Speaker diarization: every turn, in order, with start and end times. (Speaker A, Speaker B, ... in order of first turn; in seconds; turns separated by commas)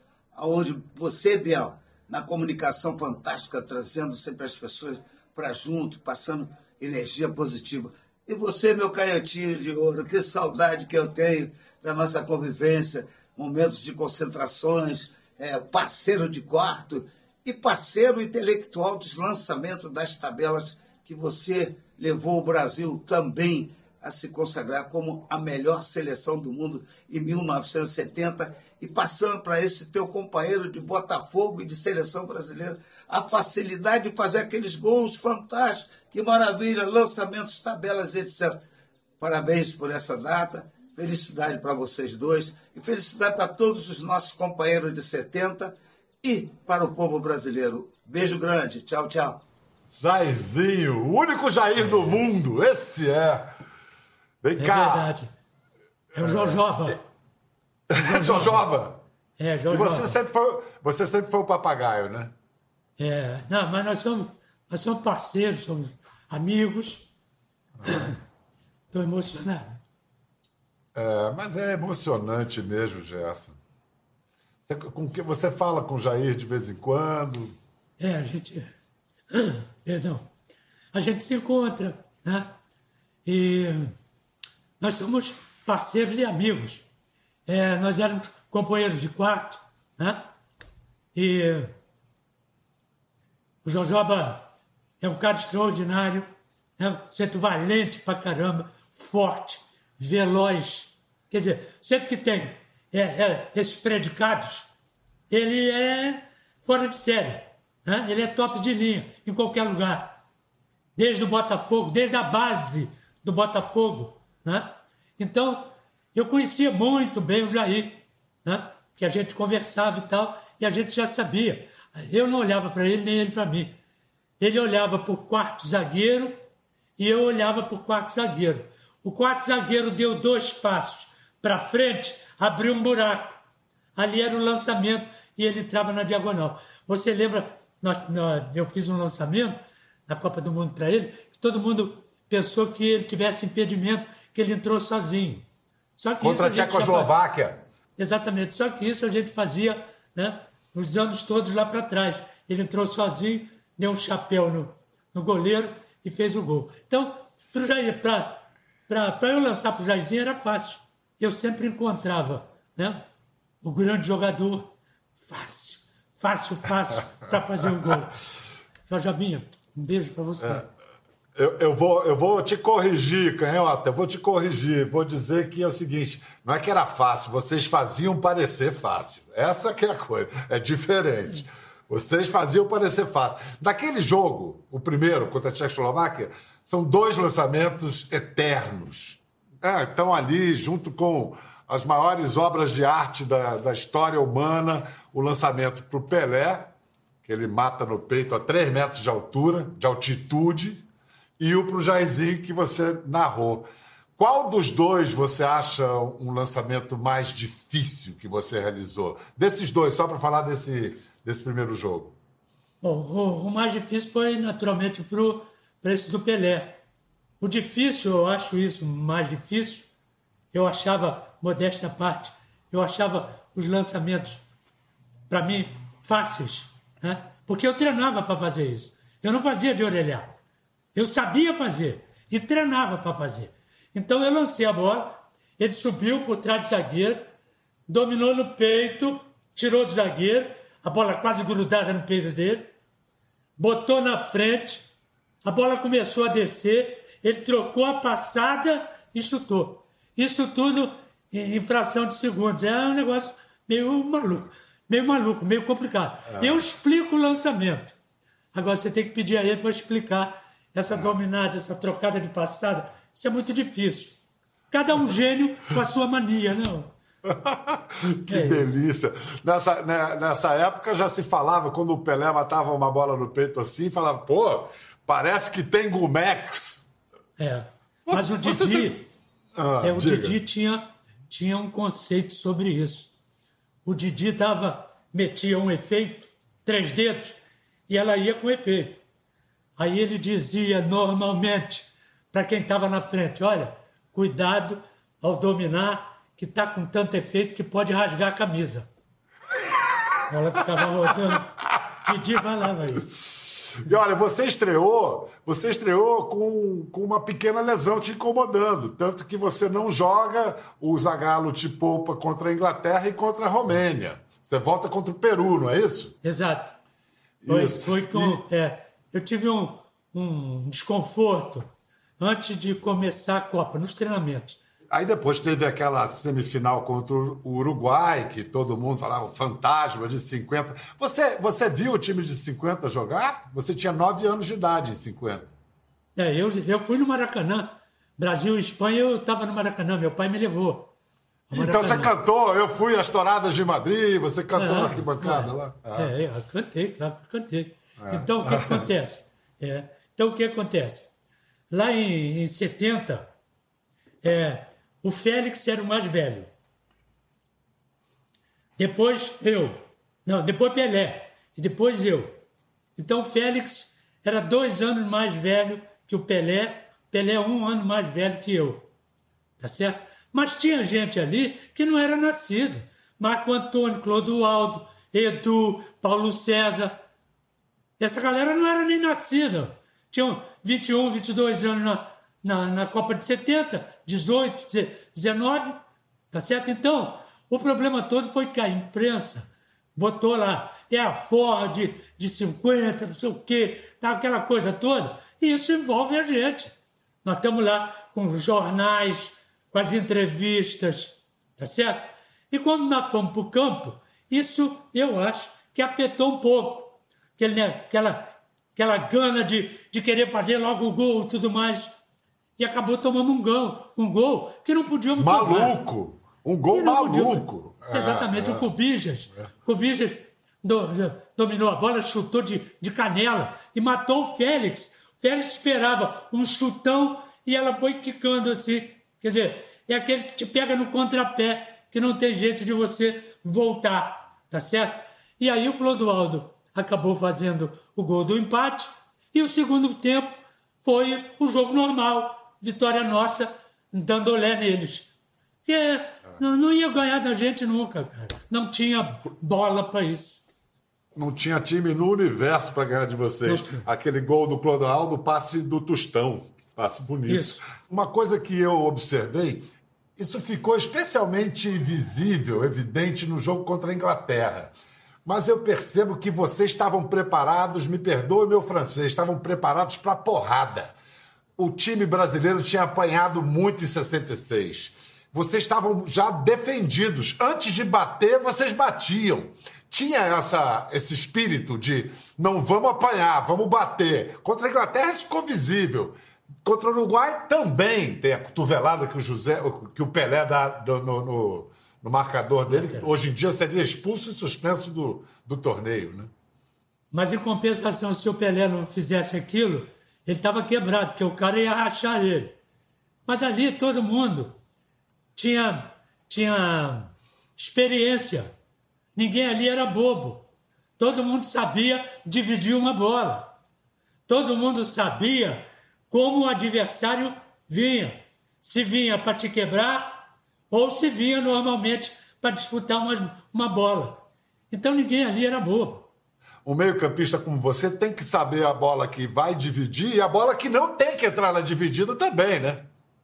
Speaker A: 0.3-38.6, Speaker A: 39.2-49.4, Speaker B: 50.0-53.5, Speaker C: 51.8-52.2, Speaker B: 54.4-55.1, Speaker C: 54.6-55.3, Speaker C: 56.1-57.0, Speaker B: 56.2-56.9, Speaker B: 57.9-59.0, Speaker C: 57.9-58.6, Speaker C: 59.4-60.2, Speaker B: 59.7-62.3, Speaker C: 63.0-67.1, Speaker B: 67.8-68.1, Speaker C: 67.8-68.2, Speaker C: 68.9-69.8, Speaker B: 70.9-73.6, Speaker B: 74.7-77.5, Speaker C: 78.0-78.7, Speaker C: 79.3-80.2, Speaker C: 80.9-82.5, Speaker C: 83.2-83.9, Speaker C: 84.8-86.8, Speaker C: 87.5-90.3, Speaker C: 91.1-91.7, Speaker C: 93.6-94.5, Speaker C: 95.0-96.3, Speaker C: 96.8-104.7, Speaker C: 105.3-110.2, Speaker C: 111.0-123.8, Speaker C: 124.4-126.3, Speaker C: 127.0-133.4, Speaker C: 133.9-145.4, Speaker C: 146.0-147.1, Speaker B: 146.2-147.6, Speaker C: 148.0-163.0, Speaker C: 163.6-164.7, Speaker C: 165.3-168.2, Speaker C: 168.9-170.7, Speaker B: 171.3-196.7, Speaker B: 197.2-200.8, Speaker B: 201.4-212.2, Speaker C: 212.8-216.8, Speaker C: 217.4-219.9, Speaker C: 220.5-224.4, Speaker C: 225.3-230.4, Speaker C: 230.9-237.3, Speaker C: 237.9-242.7, Speaker C: 243.6-244.8, Speaker C: 245.4-257.9, Speaker B: 256.3-256.6, Speaker C: 258.5-264.1, Speaker C: 264.7-266.9, Speaker B: 267.3-276.8, Speaker C: 268.1-268.8, Speaker C: 277.4-279.1, Speaker B: 278.1-279.0, Speaker B: 279.6-280.4, Speaker C: 279.8-283.1, Speaker C: 283.8-289.0, Speaker C: 289.8-298.9, Speaker C: 300.3-303.1, Speaker B: 303.8-316.1, Speaker C: 316.2-316.8, Speaker B: 317.4-318.4, Speaker C: 317.5-324.6, Speaker B: 324.9-335.5, Speaker C: 336.1-340.9, Speaker C: 341.5-342.1, Speaker B: 341.5-346.1, Speaker C: 344.6-351.1, Speaker B: 348.0-348.9, Speaker C: 351.7-353.3, Speaker C: 354.2-356.5, Speaker C: 358.8-362.3, Speaker C: 362.9-368.9, Speaker C: 369.6-377.0, Speaker C: 378.0-385.8, Speaker C: 386.3-396.7, Speaker C: 397.2-411.9, Speaker C: 412.6-415.7, Speaker B: 415.2-418.7, Speaker C: 416.7-445.1, Speaker C: 445.6-450.4, Speaker B: 451.1-464.7, Speaker C: 453.4-453.9, Speaker C: 457.3-457.6, Speaker B: 465.2-470.9, Speaker B: 471.6-496.3, Speaker C: 492.7-493.1, Speaker C: 497.1-502.6, Speaker C: 503.2-504.6, Speaker C: 505.4-508.5, Speaker C: 509.1-510.5, Speaker C: 511.0-513.5, Speaker C: 514.3-526.1, Speaker B: 526.6-532.9